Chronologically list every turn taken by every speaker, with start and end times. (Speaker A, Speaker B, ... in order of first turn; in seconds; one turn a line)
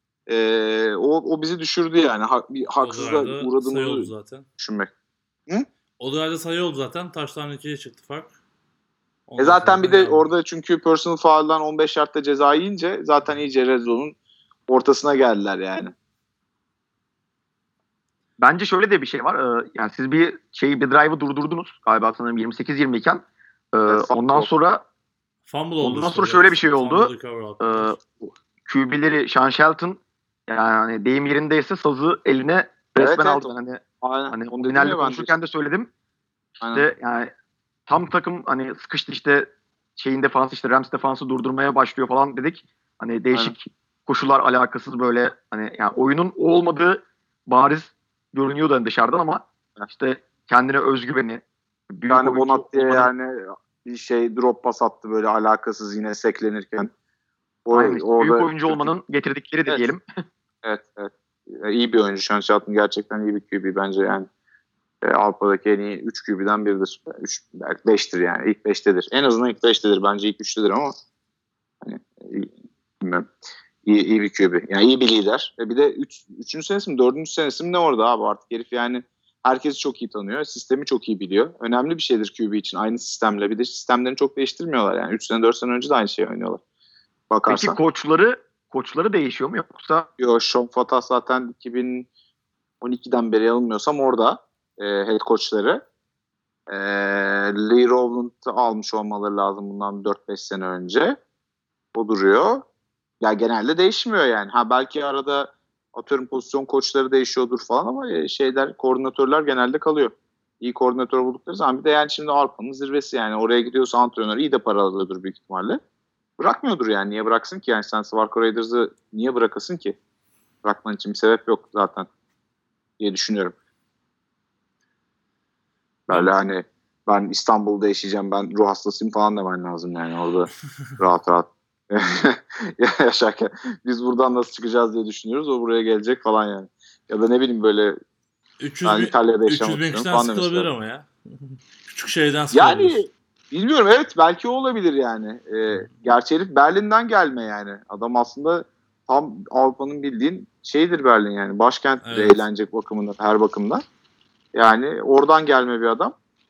Speaker A: 0.3-4.9
Speaker B: 2.8-4.5
Speaker B: 6.0-8.3
Speaker B: 9.3-10.2
Speaker A: 9.4-14.1
Speaker A: 14.7-15.9
Speaker C: 18.4-24.8
Speaker A: 23.9-24.5
Speaker B: 25.5-27.9
Speaker C: 25.8-35.9
Speaker A: 33.0-33.5
Speaker A: 34.0-35.3
Speaker A: 36.6-36.9
Speaker C: 36.7-37.3
Speaker C: 37.9-53.1
Speaker A: 52.1-56.9
Speaker A: 57.6-58.9
Speaker C: 57.7-60.0
Speaker A: 60.6-64.3
Speaker A: 65.0-70.9
Speaker A: 71.8-73.3
Speaker A: 73.8-86.6
Speaker A: 87.3-87.8
Speaker C: 87.5-90.1
Speaker A: 90.2-92.1
Speaker A: 92.8-95.8
Speaker A: 96.7-101.2
Speaker A: 101.9-102.6
Speaker A: 103.2-115.8
Speaker A: 116.4-120.0
Speaker A: 120.6-122.1
Speaker A: 123.0-123.5
Speaker A: 126.1-137.9
Speaker B: 138.6-143.0
Speaker A: 138.8-140.7
Speaker A: 142.5-153.8
Speaker B: 152.0-152.4
Speaker A: 154.5-156.1